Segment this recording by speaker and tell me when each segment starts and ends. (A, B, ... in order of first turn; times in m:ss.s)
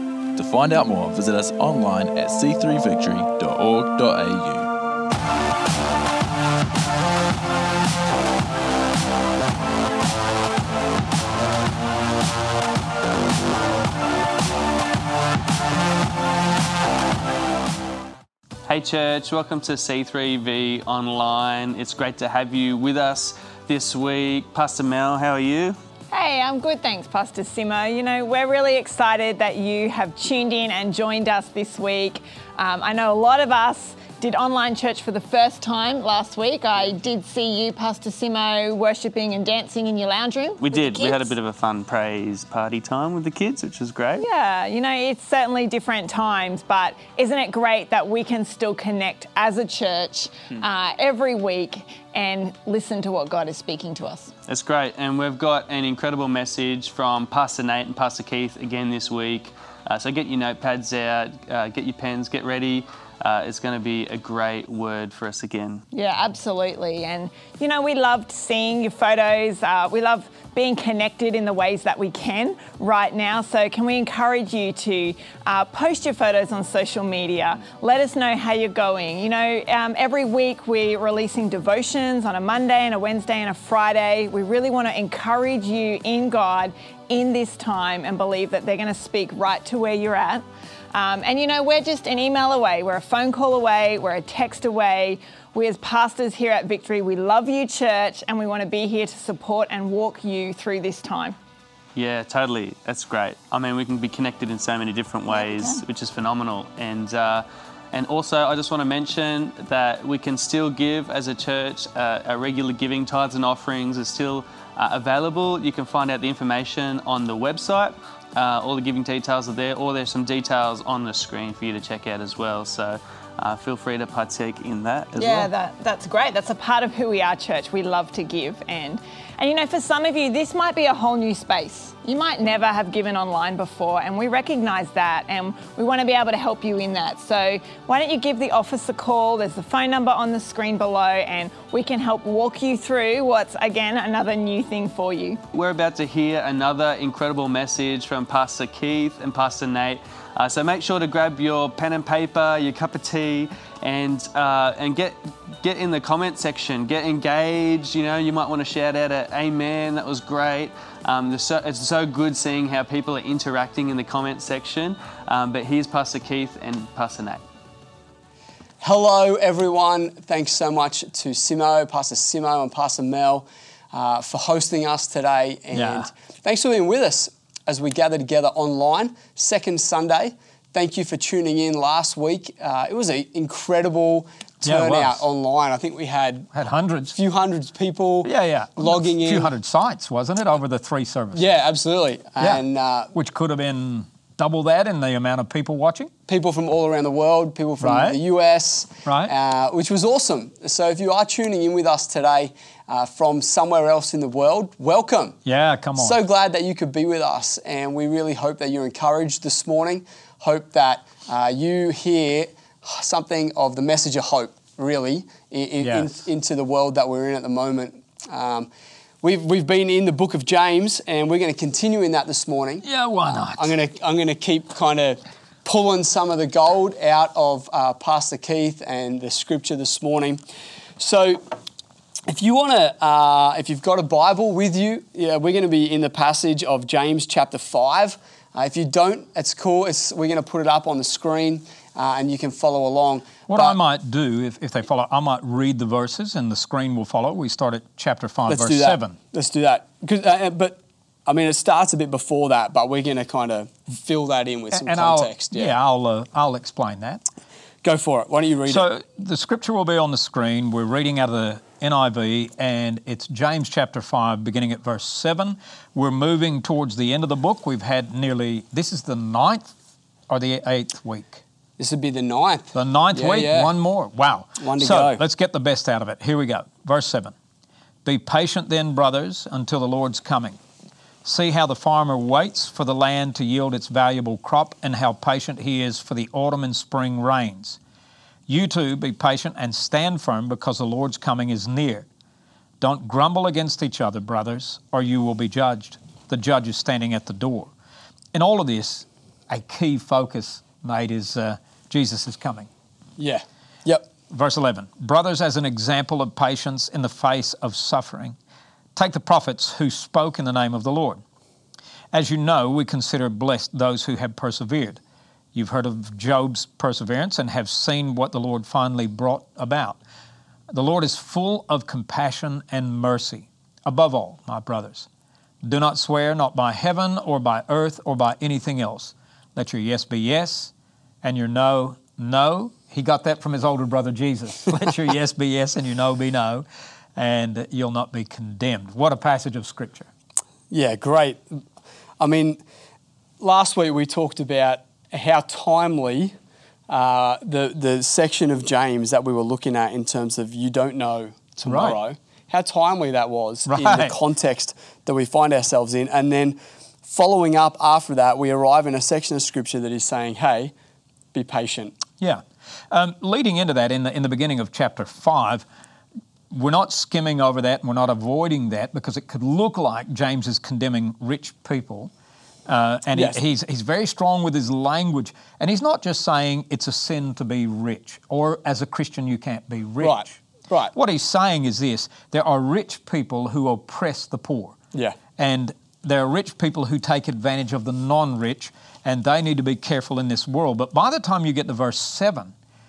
0:00.4-0:04.7 A
0:18.7-0:25.8 B
0:26.1-0:41.3 C
0:40.6-0:44.2 B
0:44.2-0:54.3 C
0:54.5-1:05.8 B
1:05.9-1:41.4 C
1:42.0-2:05.5 B
1:45.3-1:45.8 C
2:05.2-2:25.4 C
2:25.5-2:47.4 B
2:48.8-3:06.5 D
2:55.7-2:56.1 E
3:04.6-3:05.2 E
3:06.5-3:07.2 E
3:07.1-3:09.5 D
3:08.2-3:11.4 E
3:11.3-3:13.1 D
3:12.4-3:16.1 E
3:16.3-3:25.4 D
3:17.8-3:18.2 E
3:19.0-3:19.3 E
3:25.4-3:26.2 E
3:26.0-3:38.7 D
3:35.8-3:36.2 E
3:39.2-3:42.9 D
3:42.8-3:43.8 E
3:43.5-3:50.4 D
3:51.0-3:51.4 D
3:52.3-4:03.8 D
4:03.5-4:09.2 E
4:08.5-4:15.7 D
4:14.7-4:17.2 E
4:17.8-4:18.9 D
4:18.7-4:29.7 E
4:30.3-4:31.4 E
4:31.8-4:33.7 D
4:32.7-4:37.3 E
4:34.6-4:35.2 D
4:38.0-4:40.6 E
4:41.2-4:47.8 E
4:48.5-4:52.1 E
4:52.8-4:57.7 E
4:58.3-5:02.7 E
5:03.2-5:04.1 D
5:04.3-5:08.4 E
5:09.0-5:11.2 E
5:12.1-5:15.0 E
5:15.5-5:20.0 E
5:20.7-5:25.1 E
5:25.6-5:30.7 E
5:31.2-5:36.6 E
5:37.2-5:40.1 E
5:40.7-5:41.6 D
5:42.2-5:42.6 D
5:43.4-5:46.3 D
5:46.9-6:00.7 D
5:51.6-5:52.0 E
5:53.7-5:54.2 E
6:01.3-6:01.9 D
6:02.2-6:05.7 E
6:06.5-6:12.1 E
6:12.7-6:20.4 E
6:13.1-6:13.4 D
6:20.0-6:20.9 D
6:20.9-6:24.8 E
6:25.4-6:32.5 E